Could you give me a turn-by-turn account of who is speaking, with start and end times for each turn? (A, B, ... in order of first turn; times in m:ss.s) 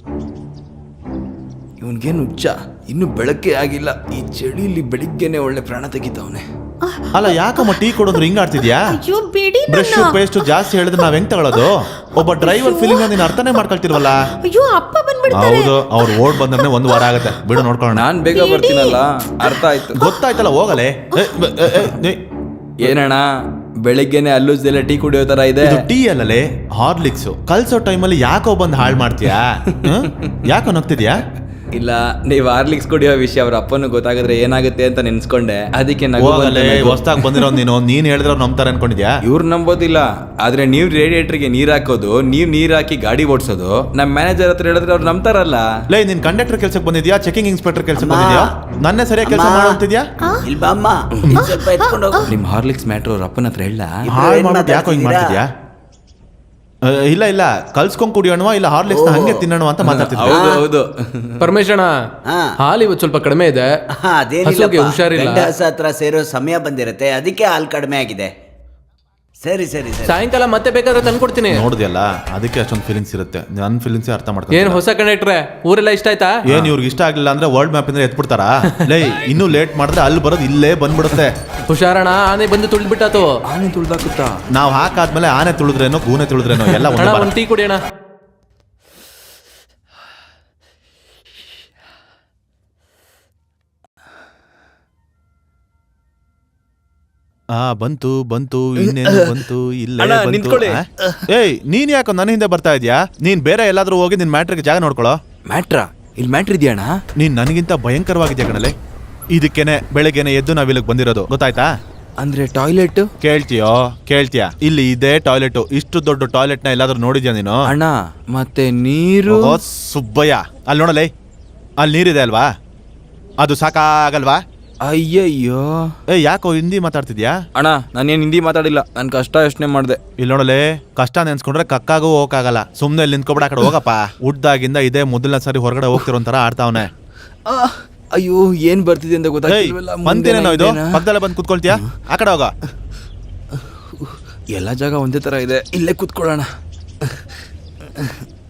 0:01.8-0:06.4 A
0:06.8-0:08.1 B
0:07.1-0:09.0 C
0:08.9-0:10.5 B
0:09.7-0:14.2 C
0:12.4-0:13.2 B
0:14.4-0:17.0 B
0:15.3-0:18.1 C
0:17.9-0:20.0 A
0:18.3-0:20.2 B
0:20.0-0:22.2 C
0:22.8-0:23.2 A
0:23.8-0:25.8 A
0:25.6-0:31.2 C
0:31.8-0:37.5 A
0:36.2-0:39.2 C
0:39.2-0:45.6 A
0:45.9-0:50.0 C
0:48.0-0:48.4 D
0:49.2-0:49.8 D
0:50.4-0:52.2 D
0:51.4-0:52.3 B
0:52.3-0:54.1 A
0:54.1-0:55.4 D
0:54.1-0:55.5 C
0:56.8-1:00.4 C
0:58.9-0:59.5 D
0:59.8-1:01.4 A
1:00.3-1:00.6 D
1:01.4-1:01.9 E
1:02.2-1:02.5 D
1:02.6-1:03.7 E
1:03.9-1:08.3 D
1:04.4-1:05.5 E
1:09.4-1:10.2 D
1:10.0-1:11.7 E
1:11.5-1:14.8 C
1:14.5-1:16.4 E
1:16.5-1:21.3 C
1:21.7-1:23.3 E
1:23.5-1:24.4 A
1:24.5-1:27.3 C
1:26.7-1:27.8 E
1:37.5-1:45.2 C
1:38.8-1:39.4 A
1:40.0-1:41.2 A
1:45.5-1:46.9 A
1:47.2-1:48.7 C
1:49.3-1:51.7 C
1:52.2-1:53.1 A
1:53.2-1:57.6 C
1:57.7-1:59.5 A
1:59.3-2:01.1 C
2:01.8-2:02.5 C
2:03.4-2:04.4 C
2:04.8-2:05.8 A
2:06.1-2:07.4 C
2:07.6-2:10.0 A
2:10.2-2:16.9 C
2:17.5-2:21.0 A
2:19.5-2:22.5 C
2:24.5-2:26.5 A